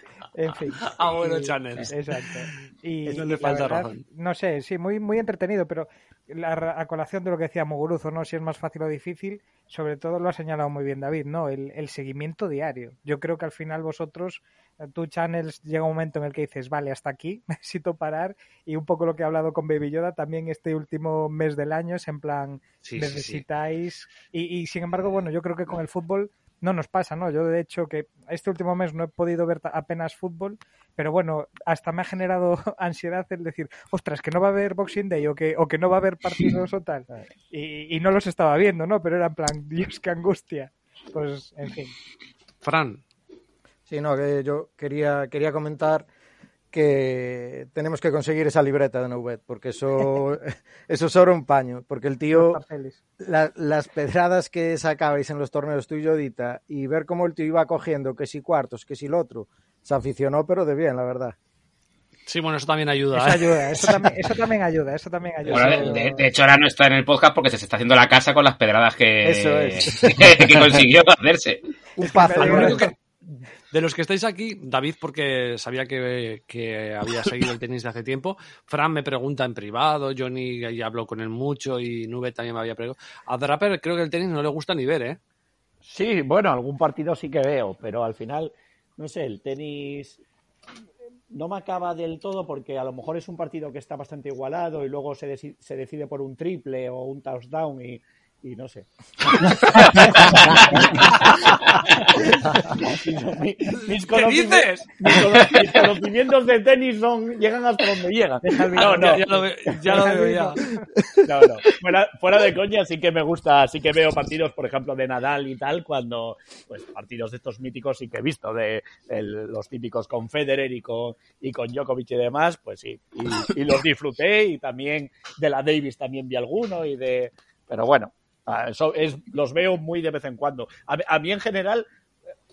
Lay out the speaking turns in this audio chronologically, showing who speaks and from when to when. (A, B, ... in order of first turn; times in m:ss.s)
0:00.3-0:41.9 A
0:00.8-0:02.3 B
0:03.0-0:04.0 B
0:22.8-0:23.4 B
0:42.6-0:43.0 B
0:43.9-0:46.1 C
0:46.7-0:52.6 C
0:52.3-0:53.0 A
0:53.2-1:01.3 C
1:02.3-1:04.2 B
1:03.1-1:06.2 A
1:05.5-1:11.6 D
1:09.2-1:10.4 C
1:12.0-1:12.9 C
1:12.0-1:12.9 A
1:12.1-1:25.2 B
1:25.8-1:30.2 E
1:31.3-1:49.2 E
1:43.9-1:45.9 B
1:48.4-1:50.8 A
1:48.7-1:50.6 B
1:51.2-2:11.9 E